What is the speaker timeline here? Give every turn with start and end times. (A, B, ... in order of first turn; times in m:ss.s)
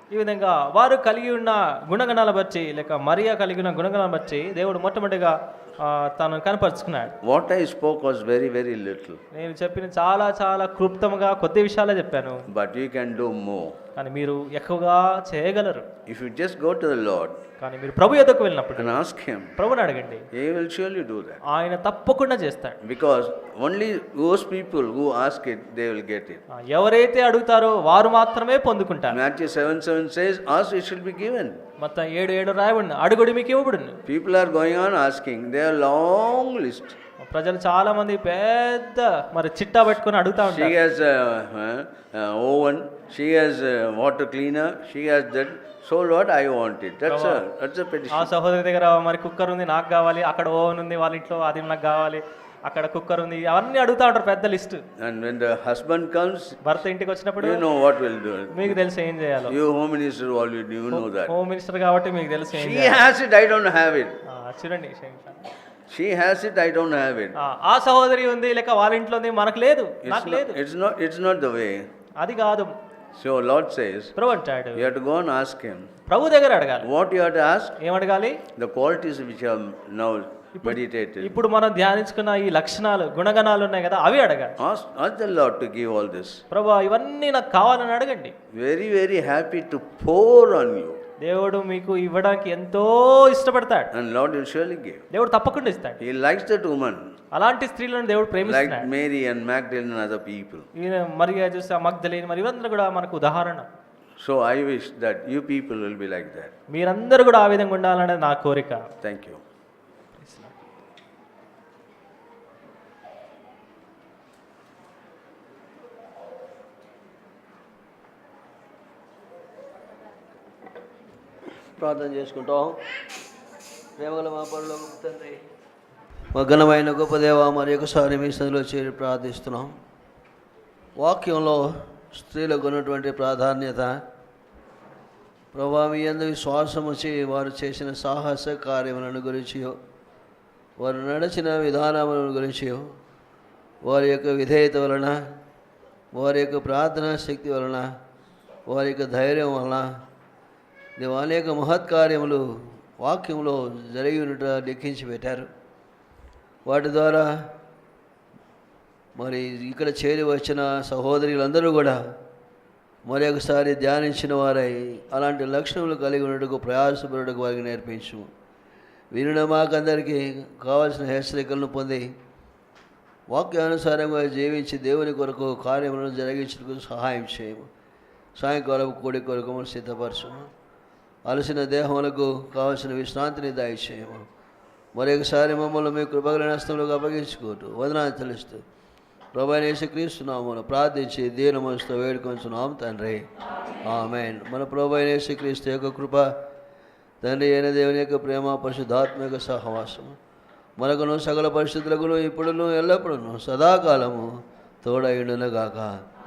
0:00.1-0:07.1 A
0:07.2-0:09.2 B
0:09.3-0:12.4 A
0:12.5-0:13.8 B
0:14.0-0:15.8 A
0:16.1-0:17.4 B
0:17.6-0:19.0 A
0:18.8-0:19.5 B
0:19.6-0:20.2 A
0:20.3-0:21.4 B
0:21.5-0:22.8 A
0:22.8-0:26.4 B
0:26.5-0:29.2 A
0:29.1-0:31.6 B
0:31.8-0:34.0 A
0:34.0-0:37.0 B
0:37.2-0:40.7 A
0:40.4-0:48.3 B
0:47.1-0:47.4 A
0:48.1-0:54.8 A
0:55.0-0:56.6 B
0:56.6-0:57.6 A
0:57.4-0:58.8 B
0:58.5-0:59.5 A
0:59.5-1:01.3 B
1:00.9-1:03.0 A
1:02.5-1:04.2 B
1:04.2-1:05.4 A
1:05.9-1:07.4 B
1:07.4-1:10.6 A
1:10.0-1:11.8 B
1:12.2-1:12.7 A
1:13.2-1:14.1 B
1:14.2-1:14.9 A
1:14.8-1:15.9 B
1:16.1-1:16.9 A
1:16.8-1:17.8 B
1:17.8-1:18.4 A
1:18.6-1:21.4 B
1:20.6-1:24.5 A
1:24.6-1:26.4 B
1:26.5-1:28.3 A
1:28.5-1:31.0 B
1:31.2-1:33.9 A
1:33.9-1:35.0 B
1:35.1-1:36.0 A
1:36.0-1:37.0 B
1:37.3-1:38.9 A
1:38.4-1:40.7 B
1:40.8-1:43.7 A
1:44.2-1:46.5 B
1:46.7-1:48.8 A
1:49.0-1:49.4 B
1:50.2-1:50.6 A
2:01.8-2:02.8 C
2:04.0-2:05.4 C
2:06.3-2:09.8 C
2:11.0-2:14.0 C
2:15.5-2:19.8 C
2:20.8-2:22.9 C
2:23.8-2:25.2 C
2:26.1-2:27.9 C
2:28.7-2:29.9 C
2:31.0-2:35.5 C
2:36.6-2:37.3 C
2:39.2-2:42.0 C
2:43.0-2:48.3 C
2:49.1-2:52.1 C
2:53.3-2:57.7 C
2:58.4-3:00.5 C
3:01.2-3:04.2 C
3:04.9-3:08.6 C
3:09.3-3:13.2 C
3:13.8-3:16.3 C
3:17.2-3:20.2 C
3:20.8-3:26.0 C